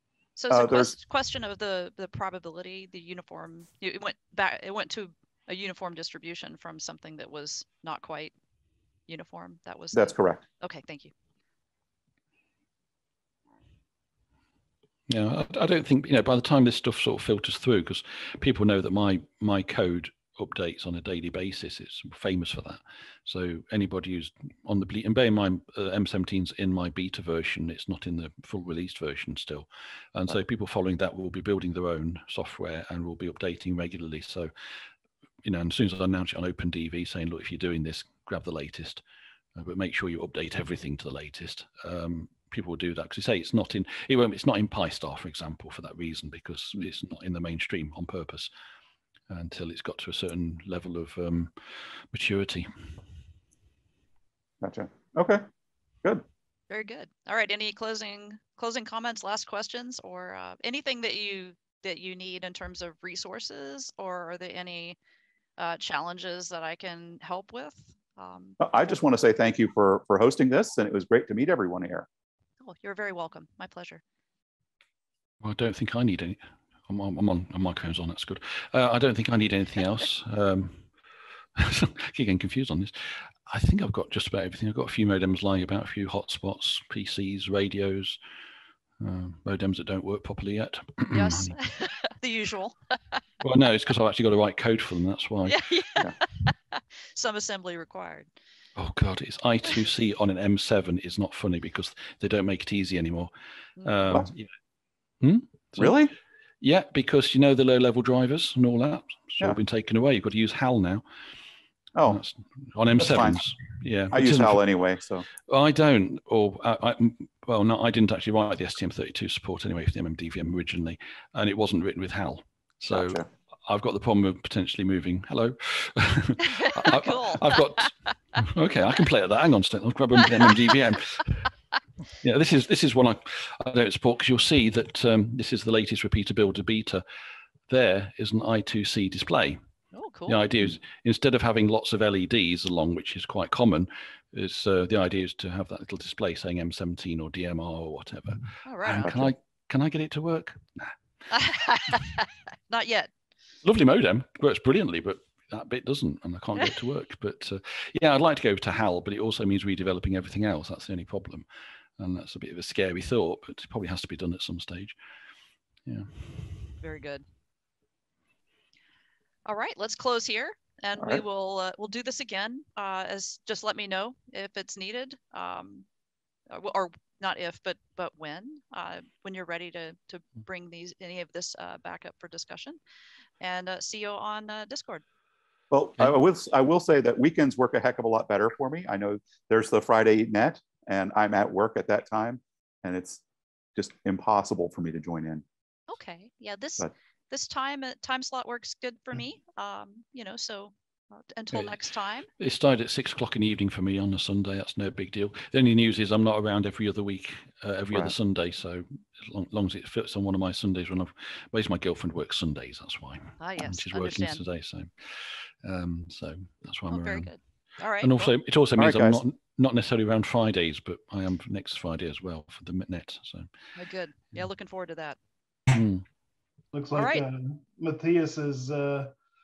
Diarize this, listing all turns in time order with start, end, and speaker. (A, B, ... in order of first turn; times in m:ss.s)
0:00.4-0:08.3 A
0:00.5-0:00.9 B
0:09.1-0:11.1 A
0:09.9-0:10.4 B
0:15.1-0:34.5 C
0:35.4-0:39.0 C
0:39.6-0:48.5 C
0:49.3-0:53.0 C
0:54.6-0:55.4 B
0:56.7-1:05.0 A
1:05.6-1:08.7 A
1:08.6-1:12.1 B
1:12.6-1:14.0 A
1:15.4-1:20.9 C
1:21.6-1:28.2 C
1:29.0-1:31.6 C
1:31.1-1:33.2 A
1:33.4-1:35.6 C
1:35.4-1:38.3 A
1:38.8-1:44.5 C
1:45.2-1:46.0 C
1:45.8-1:46.1 B
1:46.6-1:51.0 C
1:52.0-1:52.2 B
1:52.1-1:54.6 C
1:53.0-1:53.4 B
1:54.1-1:55.3 B
1:55.5-2:11.5 C
2:02.9-2:03.2 B
2:06.4-2:07.9 A
2:10.2-2:10.8 A
2:12.2-2:17.0 C
2:17.7-2:19.6 C
2:19.9-2:20.4 A
2:20.3-2:31.0 C
2:28.6-2:29.3 A
2:31.3-2:33.1 A
2:33.6-2:41.5 C
2:42.0-2:45.0 C
2:45.9-2:46.8 C
2:46.8-2:47.2 A
2:49.5-2:55.8 A
2:56.5-3:02.8 A
3:03.4-3:05.0 A
3:05.7-3:13.2 B
3:13.8-3:15.4 B
3:15.9-3:22.3 A
3:22.4-3:37.3 C
3:33.4-3:34.4 A
3:36.9-3:38.3 A
3:38.0-3:43.5 C
3:38.8-3:39.2 B
3:43.8-3:45.2 A
3:45.7-3:46.0 C
3:46.7-3:49.1 D
3:46.9-3:47.3 A